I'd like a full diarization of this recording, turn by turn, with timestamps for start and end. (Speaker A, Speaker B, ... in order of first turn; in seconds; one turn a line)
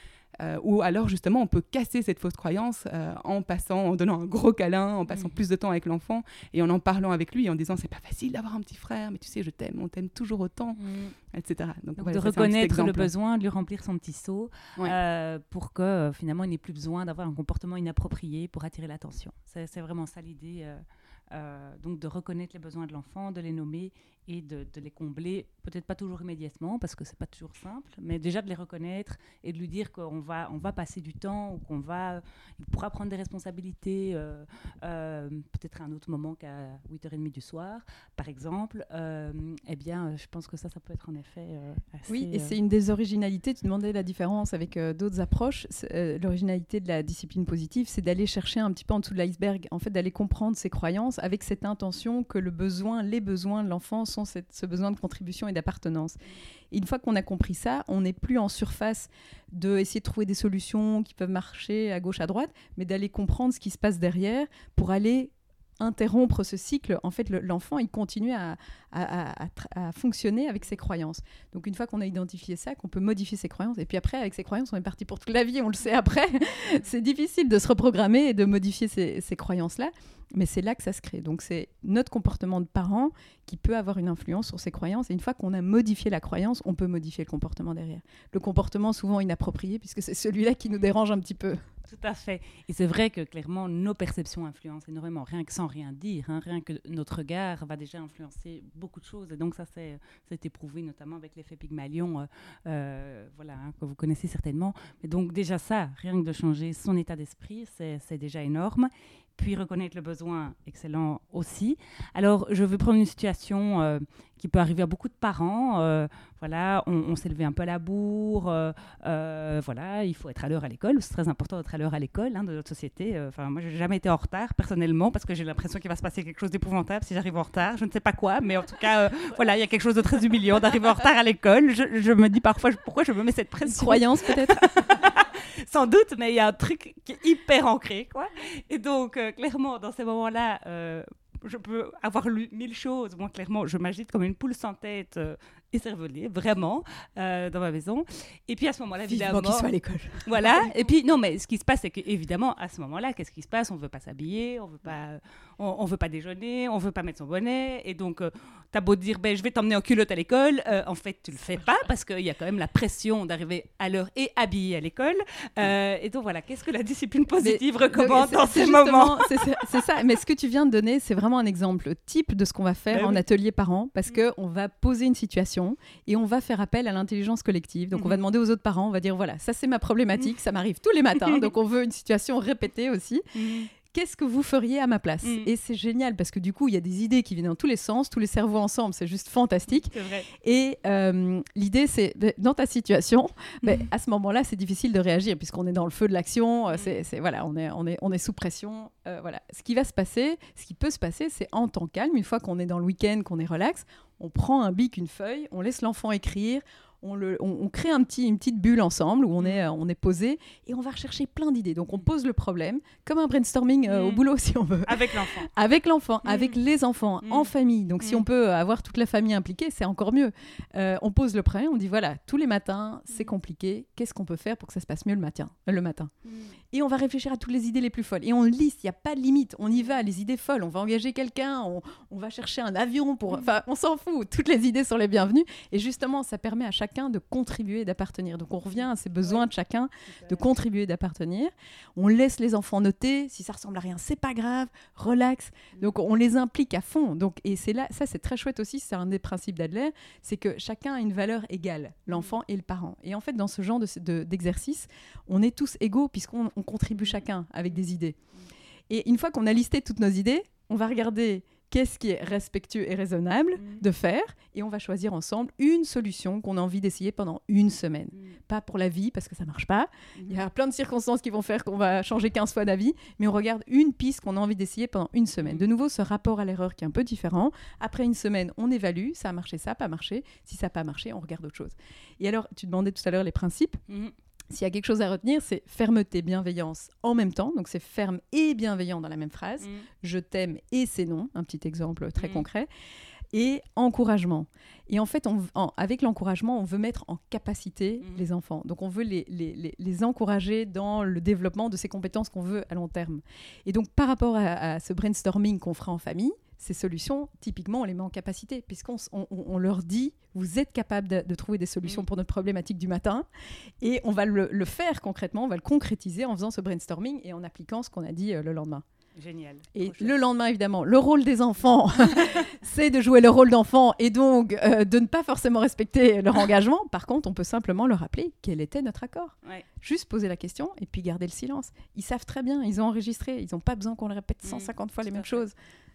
Speaker A: 0.4-10.8
Speaker B: 5.1-5.3
Speaker B: 10.8-11.1
Speaker A: 11.3-13.1
Speaker B: 12.0-42.6
Speaker C: 42.1-56.2
Speaker C: 56.7-91.6
Speaker B: 91.9-169.6
Speaker C: 133.6-134.7
Speaker C: 149.1-150.7
Speaker C: 167.4-183.3
Speaker B: 172.9-173.2
Speaker B: 181.2-181.5
Speaker B: 183.3-183.7
Speaker C: 183.9-226.1
Speaker B: 185.2-185.5
Speaker B: 189.7-190.3
Speaker B: 213.8-214.2
Speaker B: 214.8-215.5
Speaker B: 216.2-216.6
Speaker B: 217.2-217.5
Speaker B: 226.3-226.5
Speaker C: 226.7-258.1
Speaker B: 238.8-239.5
Speaker B: 240.2-240.5
Speaker B: 256.9-257.2
Speaker C: 258.9-283.8
Speaker B: 263.6-263.8
Speaker B: 270.2-270.4
Speaker B: 275.4-275.6
Speaker B: 283.9-284.1
Speaker C: 284.5-292.7
Speaker B: 289.6-289.9
Speaker B: 292.2-292.4
Speaker C: 293.3-313.2
Speaker C: 313.8-318.8
Speaker B: 319.1-320.1
Speaker C: 319.8-335.5
Speaker B: 322.1-322.4
Speaker B: 334.4-335.4